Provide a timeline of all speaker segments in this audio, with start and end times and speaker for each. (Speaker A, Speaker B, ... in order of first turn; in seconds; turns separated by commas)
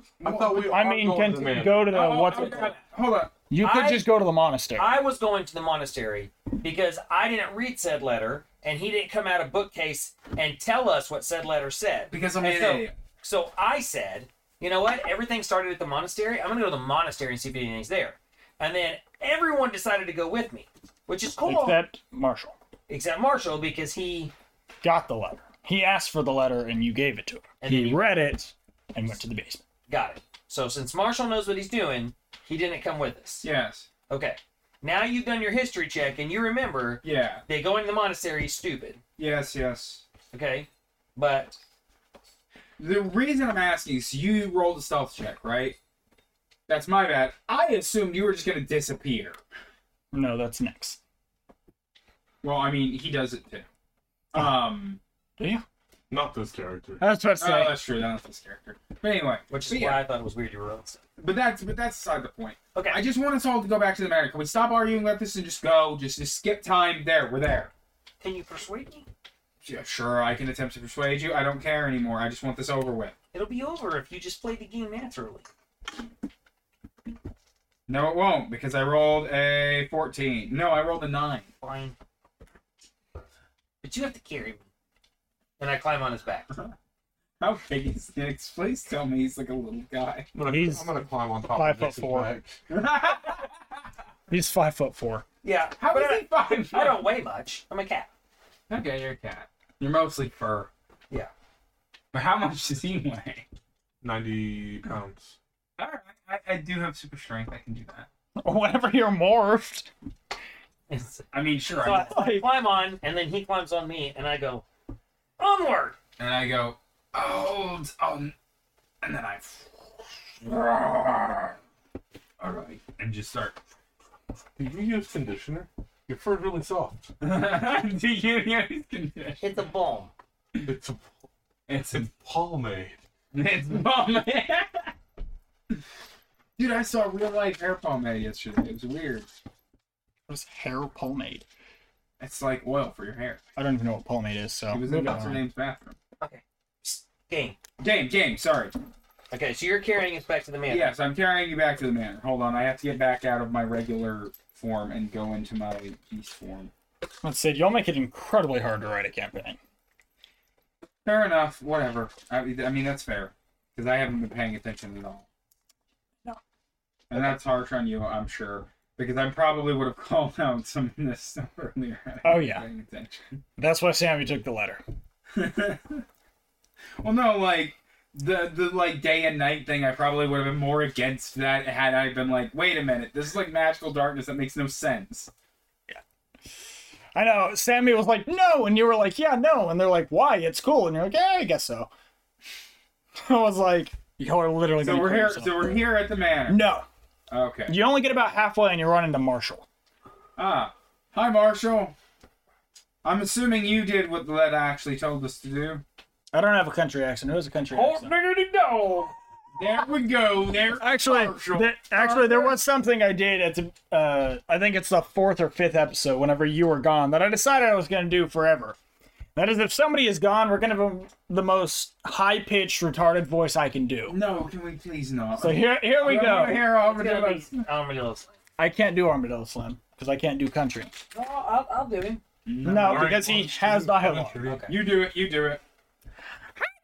Speaker A: 0.2-1.9, Speaker B: 0.2-0.7, Speaker C: 0.5-2.7, Speaker B: 1.8-3.3, Speaker D: 2.3-2.8, Speaker C: 3.5-4.9, Speaker D: 3.6-4.1, Speaker D: 4.8-21.8, Speaker B: 12.1-12.9, Speaker C: 21.4-22.5, Speaker D: 22.9-24.3, Speaker C: 24.8-29.6, Speaker D: 27.6-28.1, Speaker D: 29.9-33.5, Speaker B: 33.4-33.9, Speaker D: 34.1-39.0, Speaker B: 37.0-37.4, Speaker B: 39.2-40.0, Speaker D: 40.3-41.6, Speaker B: 42.8-45.8, Speaker B: 46.7-49.4, Speaker C: 50.1-51.0, Speaker B: 52.4-53.7, Speaker B: 54.3-55.0, Speaker C: 55.4-55.6, Speaker A: 56.1-57.0, Speaker C: 57.0-57.8, Speaker B: 57.4-60.0, Speaker D: 59.5-61.0, Speaker B: 61.2-67.7, Speaker D: 62.7-63.0, Speaker D: 68.2-69.1, Speaker B: 69.6-73.1, Speaker D: 73.3-75.5, Speaker B: 77.9-81.5, Speaker D: 81.6-82.0, Speaker D: 83.8-84.7, Speaker D: 85.6-86.5, Speaker B: 87.4-90.3, Speaker A: 90.3-92.6, Speaker C: 90.5-90.9, Speaker C: 91.5-92.3, Speaker B: 92.7-93.5, Speaker C: 94.3-95.2, Speaker D: 95.4-98.1, Speaker B: 95.8-97.1, Speaker B: 98.7-100.7, Speaker B: 102.1-103.5, Speaker A: 104.0-105.4, Speaker B: 105.8-108.1, Speaker C: 108.4-109.9, Speaker D: 110.9-114.6, Speaker B: 111.3-112.1, Speaker C: 112.0-112.5, Speaker D: 115.4-116.0, Speaker B: 116.2-118.3, Speaker B: 119.0-119.7, Speaker B: 120.4-121.5, Speaker B: 122.4-123.6, Speaker A: 124.6-127.1, Speaker B: 127.2-129.4, Speaker D: 129.4-130.1, Speaker A: 130.6-131.2, Speaker B: 131.7-132.1, Speaker A: 132.0-133.0, Speaker B: 133.3-134.9, Speaker B: 136.6-139.3, Speaker C: 140.3-141.4, Speaker B: 142.2-143.4, Speaker C: 143.6-145.4, Speaker B: 144.7-145.9, Speaker D: 146.2-147.6, Speaker B: 147.8-148.7, Speaker D: 149.3-150.9, Speaker B: 150.7-156.7, Speaker C: 157.2-159.6, Speaker B: 161.0-165.2, Speaker B: 167.1-173.4, Speaker C: 172.2-172.7, Speaker C: 173.6-174.8, Speaker B: 175.3-176.0, Speaker B: 177.0-185.3, Speaker C: 187.1-191.9, Speaker C: 193.2-195.9, Speaker B: 194.8-196.6, Speaker C: 196.5-196.9, Speaker B: 197.3-197.8, Speaker C: 197.7-199.7, Speaker B: 200.4-201.9, Speaker B: 203.0-205.8, Speaker C: 206.3-208.1, Speaker D: 207.7-209.1, Speaker B: 209.6-212.5, Speaker C: 210.8-218.8, Speaker C: 219.3-224.2, Speaker B: 224.1-227.7, Speaker C: 225.4-226.7, Speaker D: 226.5-228.3, Speaker C: 228.6-230.9, Speaker D: 231.1-232.2, Speaker B: 232.4-233.3, Speaker C: 232.6-234.4, Speaker A: 232.6-234.6, Speaker D: 234.4-234.8, Speaker B: 234.7-235.6